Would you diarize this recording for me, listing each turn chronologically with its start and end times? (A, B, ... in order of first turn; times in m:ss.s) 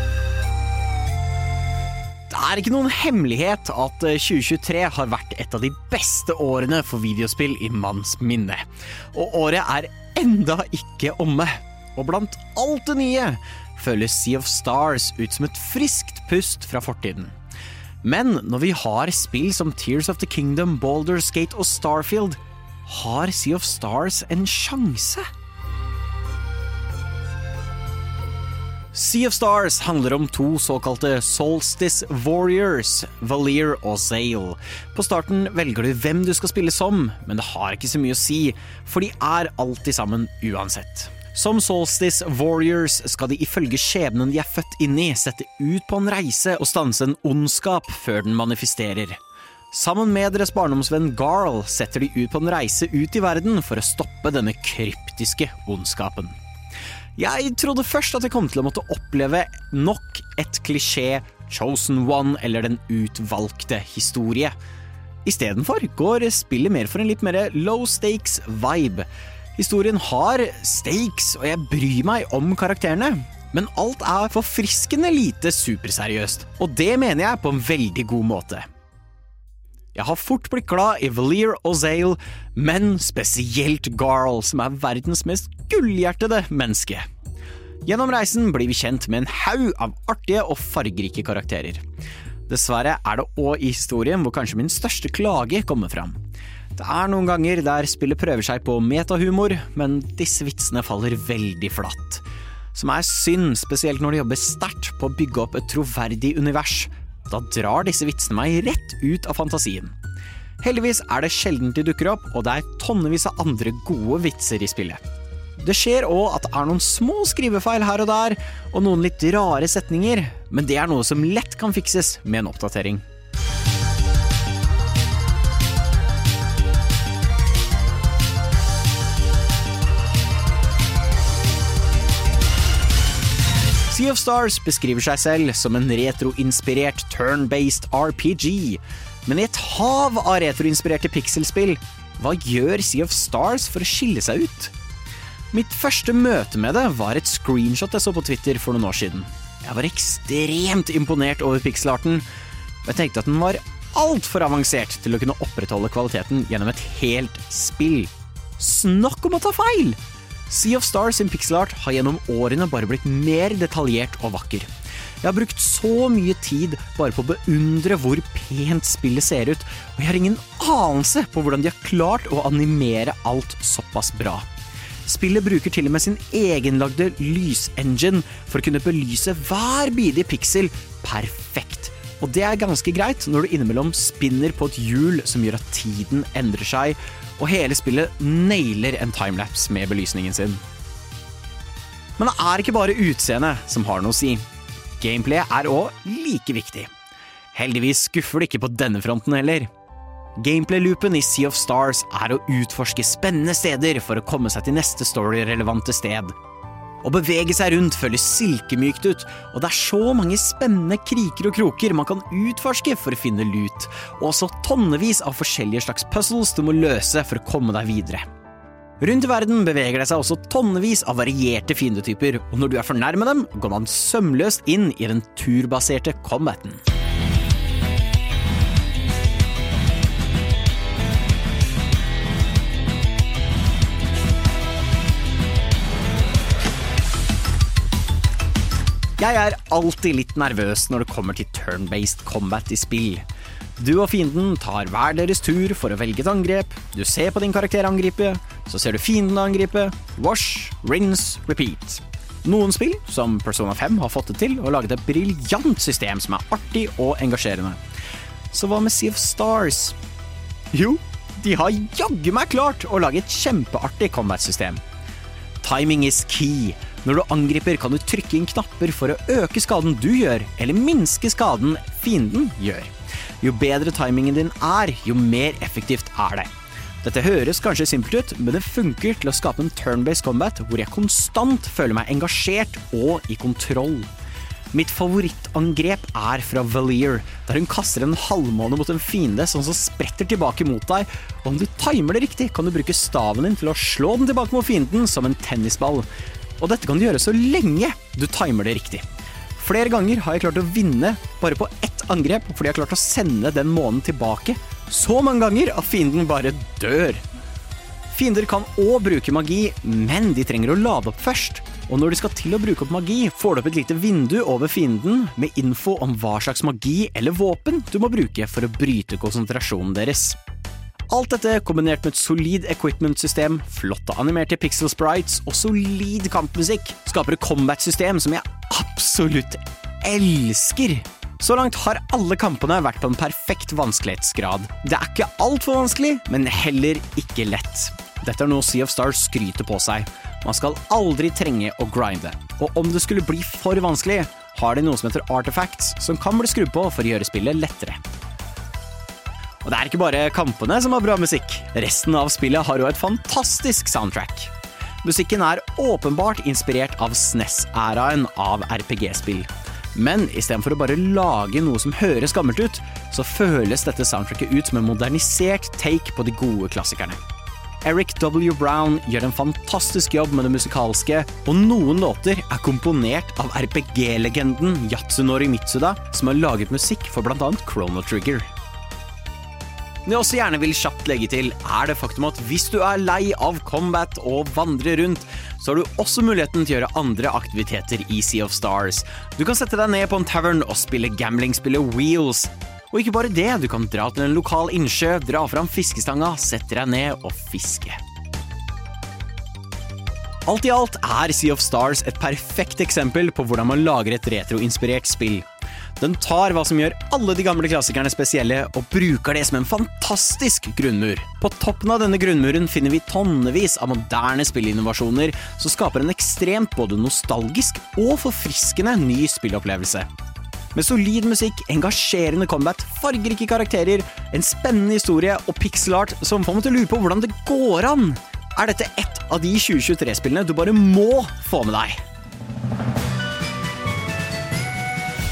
0:02.3-0:17.3 A
0:18.0-0:25.2 A
0:28.9-0:49.2 A
0:49.7-0:56.3 A
0:57.2-1:04.6 A
1:05.2-1:18.7 A
1:19.9-1:27.0 A
1:27.8-1:31.8 A
1:32.5-1:36.2 A
1:36.8-1:49.9 A
1:50.6-1:55.0 A
1:55.6-2:03.0 A
2:13.9-2:24.7 A
2:25.5-2:32.2 A
2:32.8-2:40.0 A
2:40.5-2:44.7 A
2:45.2-2:54.5 A
2:55.1-3:10.6 A
3:12.2-3:14.4 A
3:15.0-3:16.9 A
3:17.5-3:19.7 A
3:20.4-3:26.3 A
3:27.0-3:38.2 A
3:39.0-3:46.8 A
3:59.2-4:03.2 A
4:03.8-4:17.8 A
4:18.5-4:20.0 A
4:20.7-4:24.8 A
4:25.6-4:36.5 A
4:37.0-4:44.1 A
4:44.7-4:56.1 A
4:56.6-4:59.0 A
4:59.6-5:07.2 A
5:08.1-5:20.4 A
5:21.1-5:48.0 A
5:49.6-6:07.2 A
6:07.8-6:18.5 A
6:20.0-6:38.0 A
6:40.5-6:45.5 A
6:46.0-7:00.1 A
7:00.7-7:12.0 A